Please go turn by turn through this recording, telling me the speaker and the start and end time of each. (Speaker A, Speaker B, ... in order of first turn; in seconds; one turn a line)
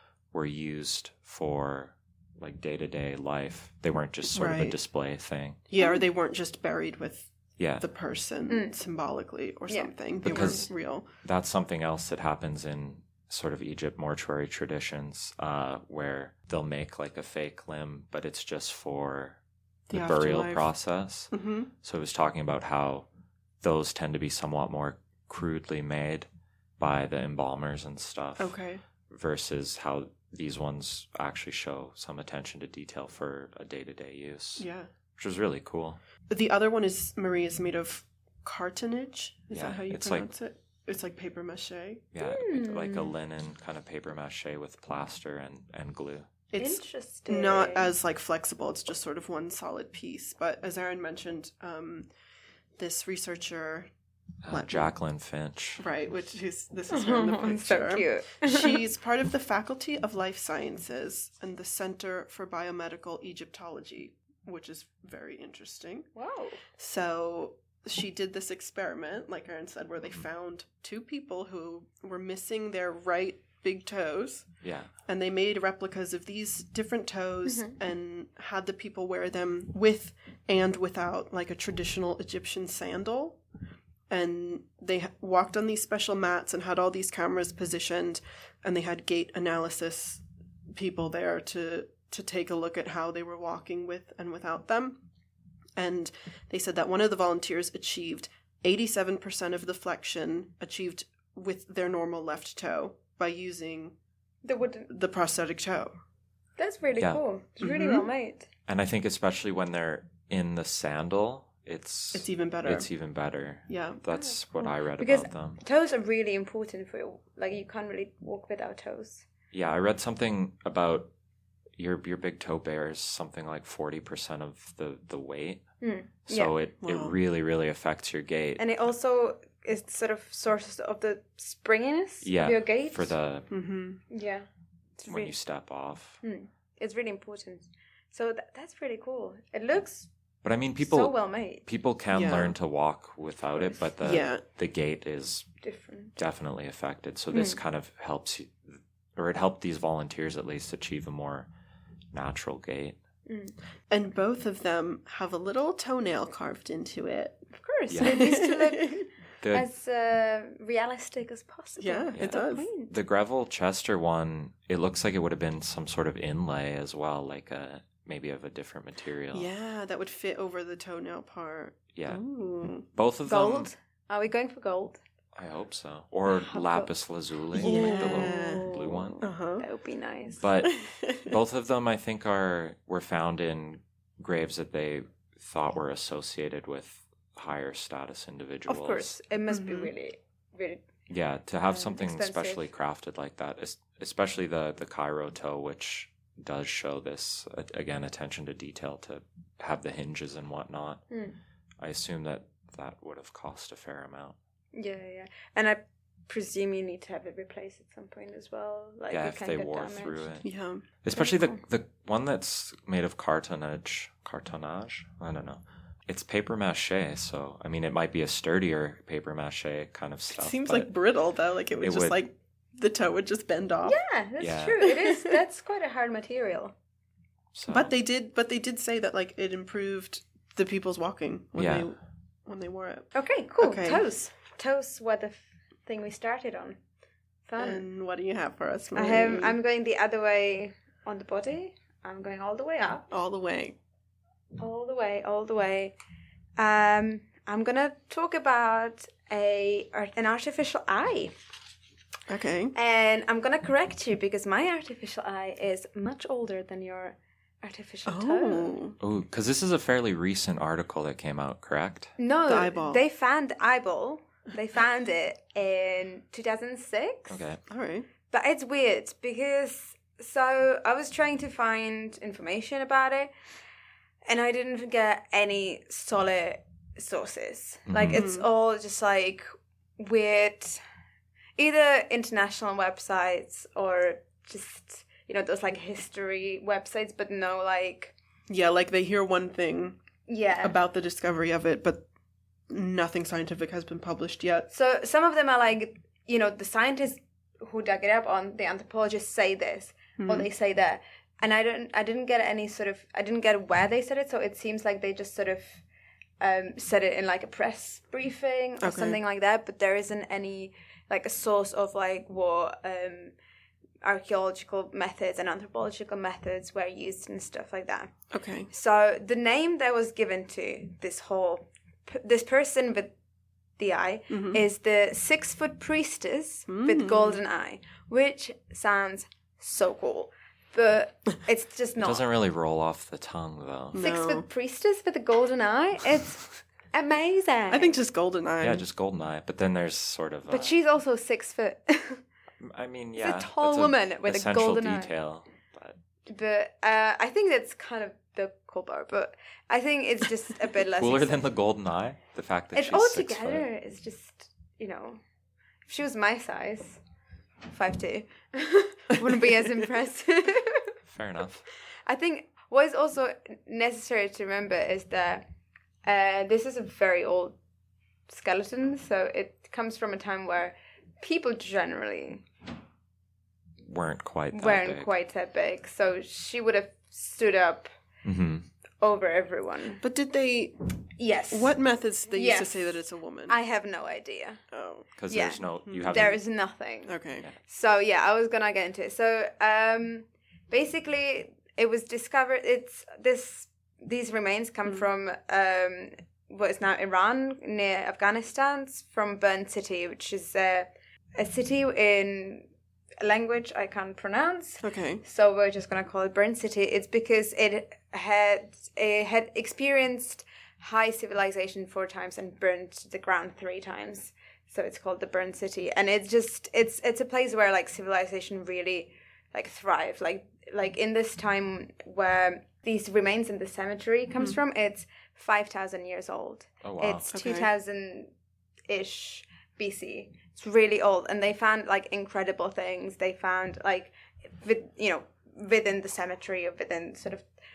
Speaker A: 0.3-5.6
Speaker B: 4.3-4.8
Speaker B: 5.7-11.1
Speaker A: 7.6-7.8
Speaker C: 8.5-8.7
Speaker C: 9.7-10.5
Speaker A: 10.2-10.7
Speaker A: 11.2-19.4
Speaker B: 19.9-20.7
Speaker A: 19.9-21.3
Speaker B: 21.3-21.7
Speaker A: 21.8-23.1
Speaker A: 23.6-26.3
Speaker A: 26.8-28.6
Speaker B: 28.4-28.8
Speaker A: 29.1-34.7
Speaker B: 34.6-34.9
Speaker A: 35.2-36.0
Speaker B: 36.3-42.0
Speaker A: 39.5-40.3
Speaker A: 42.1-46.3
Speaker C: 42.2-43.1
Speaker B: 46.5-52.1
Speaker C: 46.6-47.9
Speaker B: 52.8-53.9
Speaker A: 54.4-55.8
Speaker B: 54.5-54.9
Speaker B: 55.8-66.1
Speaker C: 56.9-58.8
Speaker C: 66.2-66.6
Speaker B: 66.8-74.5
Speaker A: 74.6-74.9
Speaker B: 75.0-83.4
Speaker C: 77.5-77.8
Speaker B: 84.1-95.0
Speaker B: 95.8-104.0
Speaker C: 104.4-104.9
Speaker B: 104.9-105.9
Speaker C: 106.6-108.5
Speaker B: 107.6-108.1
Speaker A: 108.7-115.6
Speaker B: 112.1-112.9
Speaker B: 113.7-114.0
Speaker C: 114.1-119.3
Speaker A: 119.5-121.1
Speaker A: 121.8-125.7
Speaker C: 125.8-126.5
Speaker A: 126.2-128.6
Speaker B: 126.8-127.2
Speaker C: 128.6-133.2
Speaker A: 132.2-133.5
Speaker B: 133.5-134.0
Speaker C: 134.1-134.5
Speaker C: 135.0-135.3
Speaker A: 135.1-136.2
Speaker C: 136.2-140.1
Speaker A: 140.4-145.5
Speaker C: 140.8-141.6
Speaker B: 142.1-142.6
Speaker B: 144.0-144.4
Speaker C: 145.6-146.2
Speaker A: 146.2-151.5
Speaker C: 147.3-147.6
Speaker A: 152.1-153.0
Speaker C: 153.3-153.5
Speaker B: 153.9-157.4
Speaker C: 157.5-162.9
Speaker A: 157.9-158.2
Speaker B: 158.0-159.1
Speaker B: 161.8-162.7
Speaker A: 162.2-169.5
Speaker B: 169.3-172.9
Speaker A: 171.9-172.2
Speaker A: 172.9-173.7
Speaker C: 173.3-175.0
Speaker A: 175.3-179.2
Speaker C: 176.3-176.9
Speaker C: 177.6-180.4
Speaker B: 177.6-179.7
Speaker A: 180.4-189.2
Speaker B: 180.6-181.4
Speaker C: 188.7-190.8
Speaker B: 189.5-189.9
Speaker A: 191.1-201.1
Speaker C: 191.7-192.7
Speaker C: 201.1-201.4
Speaker A: 201.8-204.4
Speaker C: 204.7-210.3
Speaker A: 209.1-210.5
Speaker B: 210.4-210.8
Speaker A: 211.0-220.9
Speaker C: 211.2-211.6
Speaker B: 220.3-224.0
Speaker A: 221.8-222.2
Speaker C: 223.8-226.8
Speaker A: 224.4-224.9
Speaker B: 224.9-225.4
Speaker A: 227.5-227.9
Speaker B: 227.7-234.1
Speaker A: 231.6-231.9
Speaker C: 233.1-236.8
Speaker C: 237.5-237.8
Speaker B: 237.6-239.6
Speaker C: 238.9-243.1
Speaker B: 243.1-243.8
Speaker C: 244.6-245.9
Speaker C: 246.6-251.3
Speaker B: 252.3-252.7
Speaker C: 252.7-258.8
Speaker B: 258.1-259.0
Speaker A: 259.0-262.1
Speaker C: 262.2-267.4
Speaker B: 262.5-263.0
Speaker A: 267.3-267.6
Speaker B: 267.7-268.1
Speaker C: 268.3-273.3
Speaker C: 274.3-279.5
Speaker A: 277.9-278.2
Speaker B: 278.1-278.5
Speaker C: 280.0-280.8
Speaker C: 281.6-288.1
Speaker B: 288.5-290.0
Speaker C: 290.3-290.8
Speaker B: 290.6-292.1
Speaker B: 292.7-294.7
Speaker C: 294.7-305.8
Speaker B: 300.2-300.5
Speaker C: 306.4-313.4
Speaker B: 308.8-309.2
Speaker C: 314.0-318.1
Speaker B: 318.3-318.7
Speaker C: 318.7-323.1
Speaker C: 323.8-332.2
Speaker B: 324.3-324.6
Speaker B: 326.7-327.4
Speaker A: 332.0-334.0
Speaker B: 333.9-334.5
Speaker C: 334.0-338.0
Speaker B: 337.7-338.9
Speaker A: 338.6-340.8
Speaker C: 340.5-342.2
Speaker A: 342.6-346.0
Speaker C: 343.2-345.1
Speaker C: 346.3-351.4
Speaker A: 351.0-353.6
Speaker C: 352.7-355.2
Speaker C: 355.9-357.0
Speaker C: 357.6-360.9
Speaker A: 361.1-361.6
Speaker C: 362.1-365.4
Speaker C: 366.0-367.6
Speaker C: 368.3-372.4
Speaker A: 373.8-375.1
Speaker C: 374.5-377.9
Speaker A: 378.2-378.7
Speaker C: 379.0-380.0
Speaker B: 380.0-380.8
Speaker C: 381.2-381.8
Speaker B: 381.5-383.6
Speaker C: 382.3-384.6
Speaker B: 384.7-385.1
Speaker A: 385.2-386.4
Speaker C: 385.3-402.7
Speaker B: 385.9-386.4
Speaker B: 387.1-387.5
Speaker C: 403.2-428.3
Speaker B: 404.8-405.2
Speaker A: 426.8-427.3
Speaker B: 427.3-427.7
Speaker C: 428.9-437.5